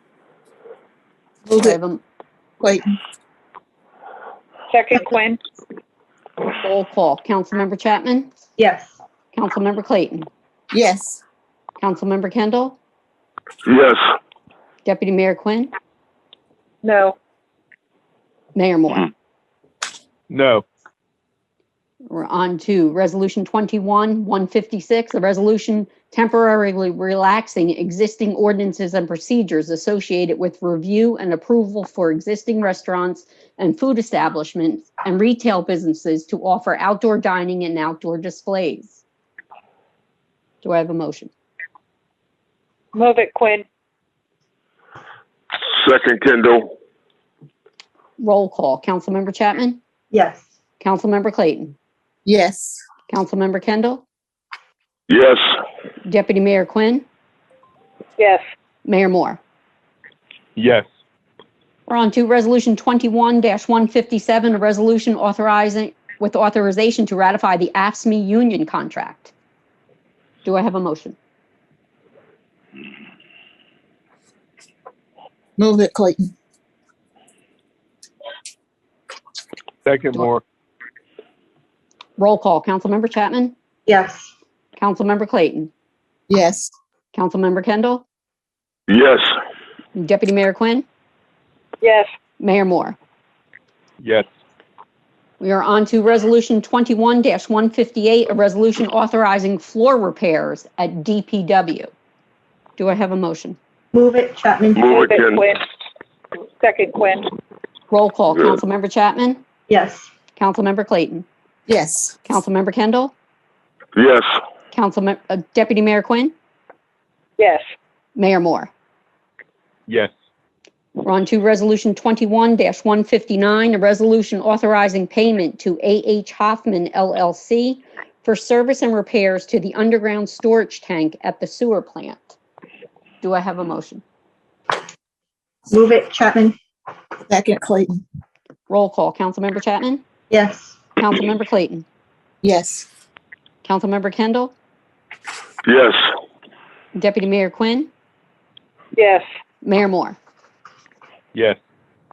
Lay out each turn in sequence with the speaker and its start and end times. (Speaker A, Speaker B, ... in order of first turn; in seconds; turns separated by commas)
Speaker A: 1.5-2.0, Speaker B: 2.6-2.9, Speaker C: 4.7-5.4, Speaker A: 6.6-8.3, Speaker D: 8.6-9.0, Speaker A: 9.3-10.3, Speaker B: 10.7-11.2, Speaker A: 11.8-12.8, Speaker E: 13.7-14.1, Speaker A: 14.8-15.7, Speaker C: 16.8-17.1, Speaker A: 18.5-19.0, Speaker F: 20.3-20.6, Speaker A: 22.0-39.0, Speaker A: 40.6-41.3, Speaker C: 42.9-43.6, Speaker E: 45.7-46.7, Speaker A: 48.2-49.8, Speaker D: 50.1-50.4, Speaker A: 50.8-51.7, Speaker B: 52.2-52.8, Speaker A: 53.1-54.0, Speaker E: 55.1-55.5, Speaker A: 56.0-57.0, Speaker C: 58.2-58.4, Speaker A: 58.8-59.4, Speaker F: 60.5-60.9, Speaker A: 61.9-69.3, Speaker A: 70.4-71.2, Speaker B: 75.6-76.3, Speaker F: 79.8-80.4, Speaker A: 82.2-83.5, Speaker D: 83.8-84.3, Speaker A: 84.8-85.7, Speaker B: 86.3-86.7, Speaker A: 87.1-88.0, Speaker E: 88.9-89.3, Speaker A: 89.9-90.8, Speaker C: 91.8-92.1, Speaker A: 92.4-93.0, Speaker F: 94.0-94.3, Speaker A: 95.4-101.9, Speaker A: 102.8-103.6, Speaker D: 103.9-105.0, Speaker E: 104.7-105.5, Speaker C: 104.9-105.6, Speaker C: 106.6-107.3, Speaker A: 107.9-109.4, Speaker D: 109.7-110.1, Speaker A: 110.3-111.3, Speaker B: 111.7-112.2, Speaker A: 112.2-113.1, Speaker E: 114.0-114.4, Speaker A: 114.7-116.3, Speaker C: 117.4-117.6, Speaker A: 118.2-118.7, Speaker A: 121.0-132.3, Speaker A: 133.2-134.0, Speaker D: 135.7-136.5, Speaker B: 137.3-138.0, Speaker A: 138.7-140.1, Speaker D: 140.3-140.9, Speaker A: 141.0-141.8, Speaker B: 142.4-142.9, Speaker A: 143.6-144.5, Speaker E: 145.6-146.1, Speaker A: 146.9-147.9, Speaker C: 148.9-149.2, Speaker A: 149.6-150.2, Speaker F: 151.3-151.6